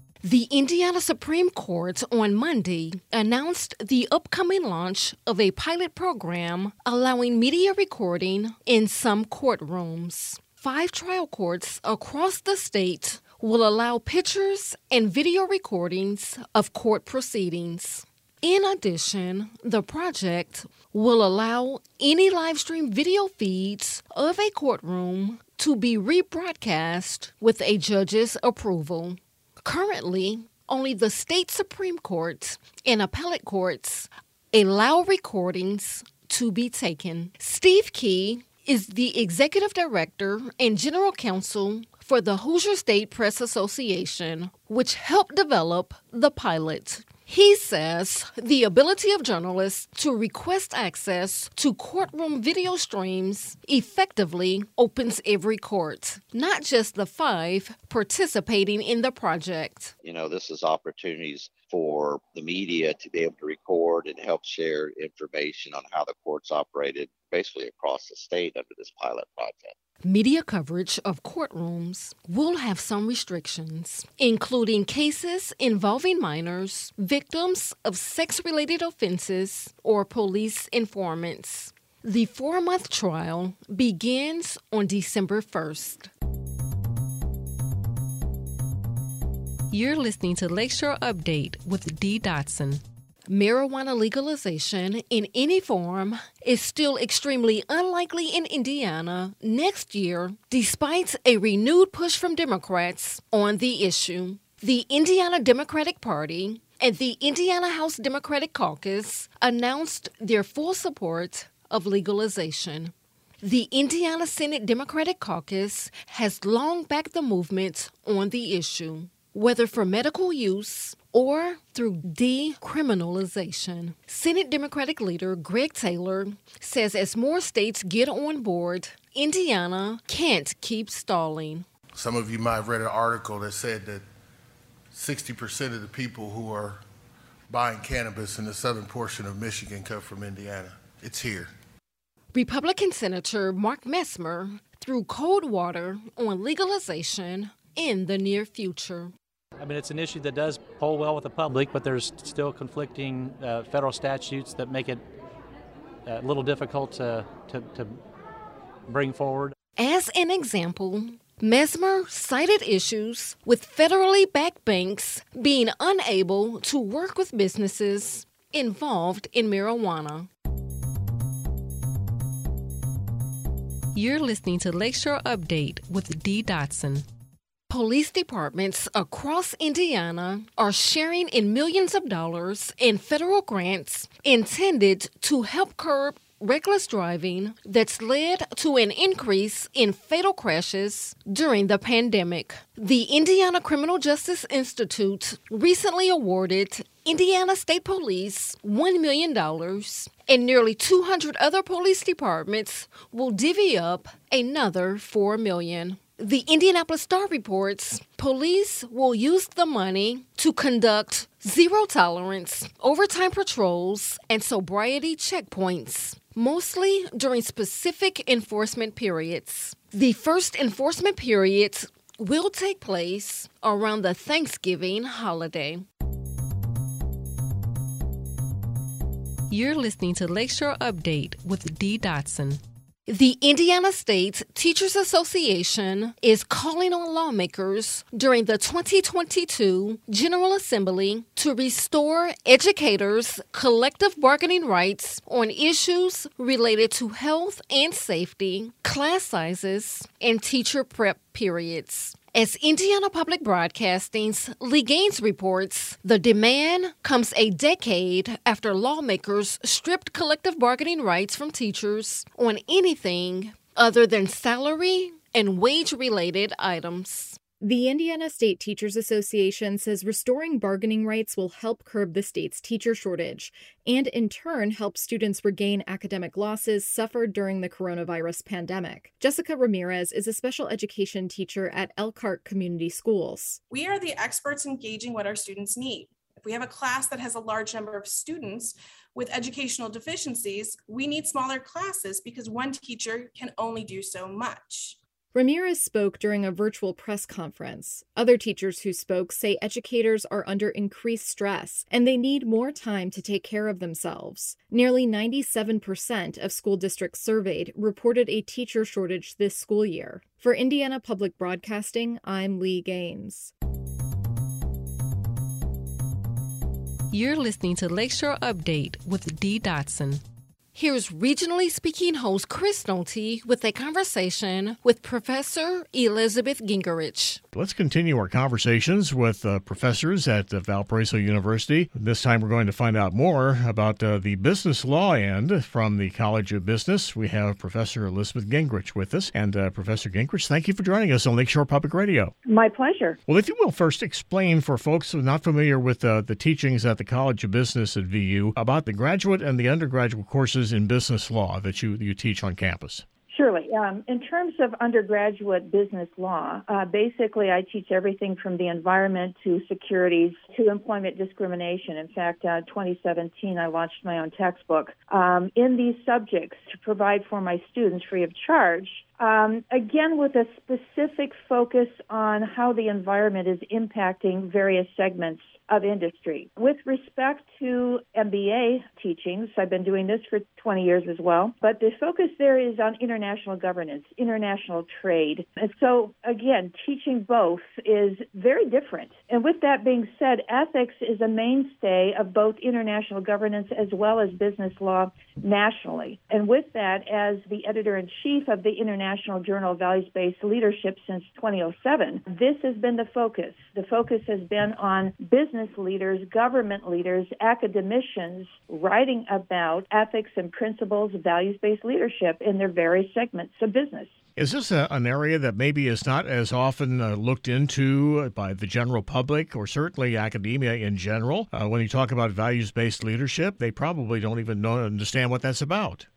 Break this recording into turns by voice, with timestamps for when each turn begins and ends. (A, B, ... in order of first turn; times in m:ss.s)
0:00.2-0:59.9 A
1:00.0-1:09.7 B
1:10.0-1:26.1 A
1:29.7-1:32.8 C
1:33.3-2:11.7 A
2:11.9-2:14.0 D
2:14.9-2:16.8 D
2:17.5-2:21.5 D
2:22.3-2:29.1 A
2:29.6-2:35.0 E
2:36.0-2:38.0 E
2:38.9-2:39.5 E
2:39.8-2:50.3 A
2:53.9-2:57.0 C
2:57.7-3:45.8 A
3:49.5-3:52.6 C
3:53.1-4:27.4 A
4:27.6-4:43.6 F
4:43.7-4:55.0 G
4:55.3-5:13.5 F
5:17.1-5:20.2 C
5:20.7-5:27.4 A
5:27.5-5:42.3 H
5:42.4-5:43.2 I
5:43.3-5:53.0 H
5:53.3-6:54.1 I
6:54.4-7:06.0 H